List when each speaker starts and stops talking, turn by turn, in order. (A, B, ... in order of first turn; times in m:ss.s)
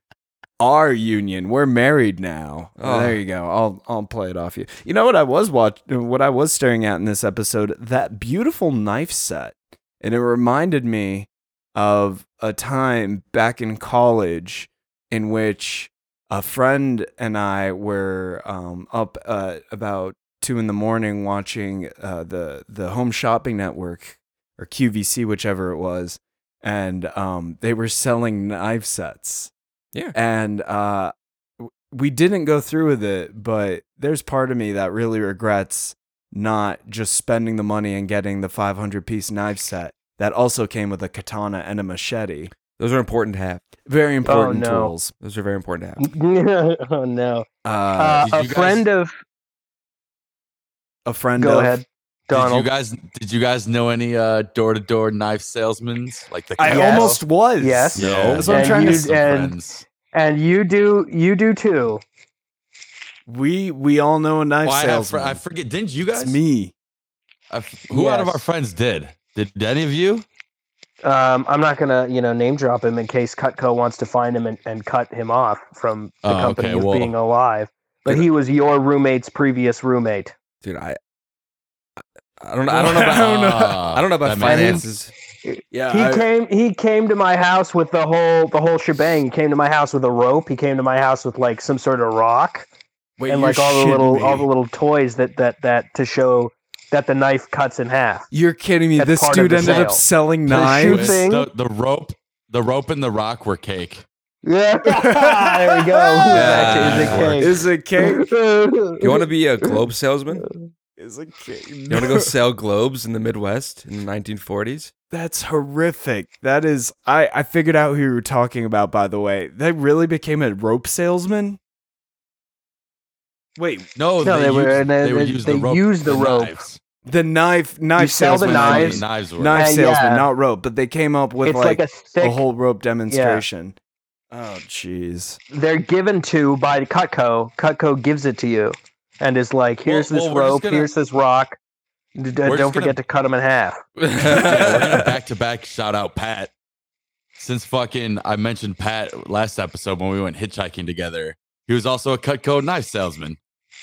0:00.6-0:29.5 A
0:02.8-0:03.2 B
0:30.1-0:42.5 A
0:42.8-0:43.6 B
0:43.9-0:45.1 A
0:44.2-0:44.9 C
0:45.2-0:46.0 B
0:46.0-0:49.1 C
0:47.6-0:48.3 A
0:48.2-0:48.8 D
0:51.0-0:51.8 A
0:51.4-0:52.7 C
0:52.3-0:57.2 D
0:56.6-0:59.1 A
0:56.6-0:59.6 C
0:58.0-0:59.9 D
1:00.1-1:02.0 C
1:03.3-1:05.4 A
1:04.6-1:06.4 D
1:06.2-1:06.7 A
1:07.5-1:10.2 D
1:07.9-1:08.4 C
1:11.0-1:20.3 C
1:16.2-1:17.1 D
1:20.6-1:21.0 B
1:22.4-1:25.1 B
1:22.7-1:23.8 A
1:23.1-1:24.8 D
1:24.4-1:24.9 C
1:25.5-1:32.7 C
1:25.7-1:26.3 A
1:33.2-1:34.5 A
1:33.3-1:38.3 C
1:38.3-1:41.2 A
1:39.0-1:41.5 C
1:39.6-1:39.9 D
1:40.6-1:44.1 D
1:44.4-1:49.3 C
1:44.9-1:48.2 A
1:46.3-1:47.5 D
1:46.3-1:47.3 B
1:49.0-1:50.5 B
1:51.0-1:52.3 A
1:51.9-1:54.9 B
1:55.1-2:01.6 A
2:03.6-2:03.9 A
2:04.0-2:06.8 D
2:04.2-2:06.6 C
2:07.1-2:13.8 A
2:08.0-2:10.3 C
2:08.4-2:09.6 D
2:11.4-2:12.4 C
2:13.1-2:13.4 C
2:14.3-2:15.4 A
2:15.5-2:21.6 C
2:19.9-2:20.9 D
2:22.2-2:23.8 C
2:22.4-2:23.0 D
2:24.0-2:25.1 B
2:24.2-2:26.5 D
2:27.4-2:33.4 D